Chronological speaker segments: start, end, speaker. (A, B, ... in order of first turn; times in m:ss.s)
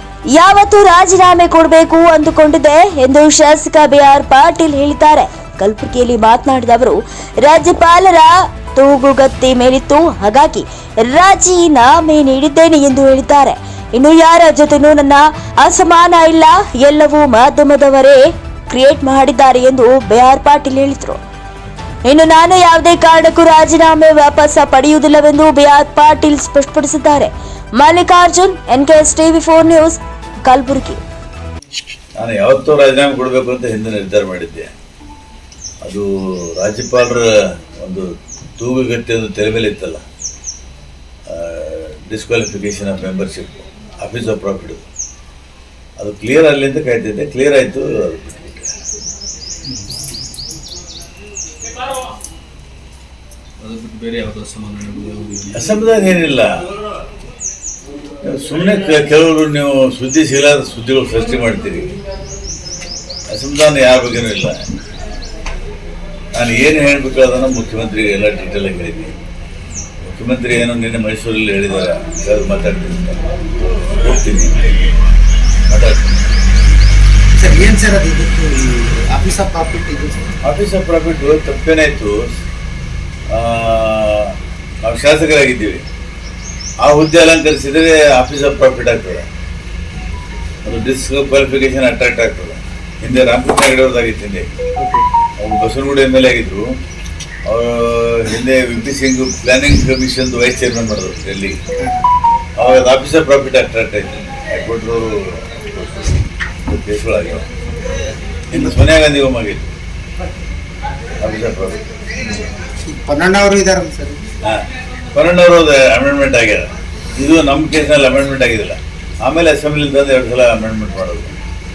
0:00.3-0:21.2 A
0:22.0-0:31.0 A
0:32.2-0:34.7 B
0:35.8-0:38.1 B
0:38.6-0:40.0 B
0:41.3-0:44.8 B
0:46.0-0:48.7 B
0:53.6-0:55.8 C
0:55.6-0:56.5 B
0:58.2-1:01.9 B
1:03.3-1:04.6 B
1:06.4-1:09.1 B
1:10.1-1:13.2 B
1:14.0-1:14.6 B
1:15.7-1:16.1 B
1:17.4-1:20.3 D
1:20.4-1:22.3 B
1:23.3-1:25.8 B
1:26.8-1:29.2 B
1:30.6-1:34.5 B
1:34.8-1:35.1 D
1:35.4-1:36.7 B
1:37.5-1:41.6 B
1:42.6-1:47.5 B
1:48.5-1:49.7 B
1:48.5-1:48.8 D
1:51.2-1:51.8 B
1:52.2-1:54.2 D
1:54.4-2:01.3 B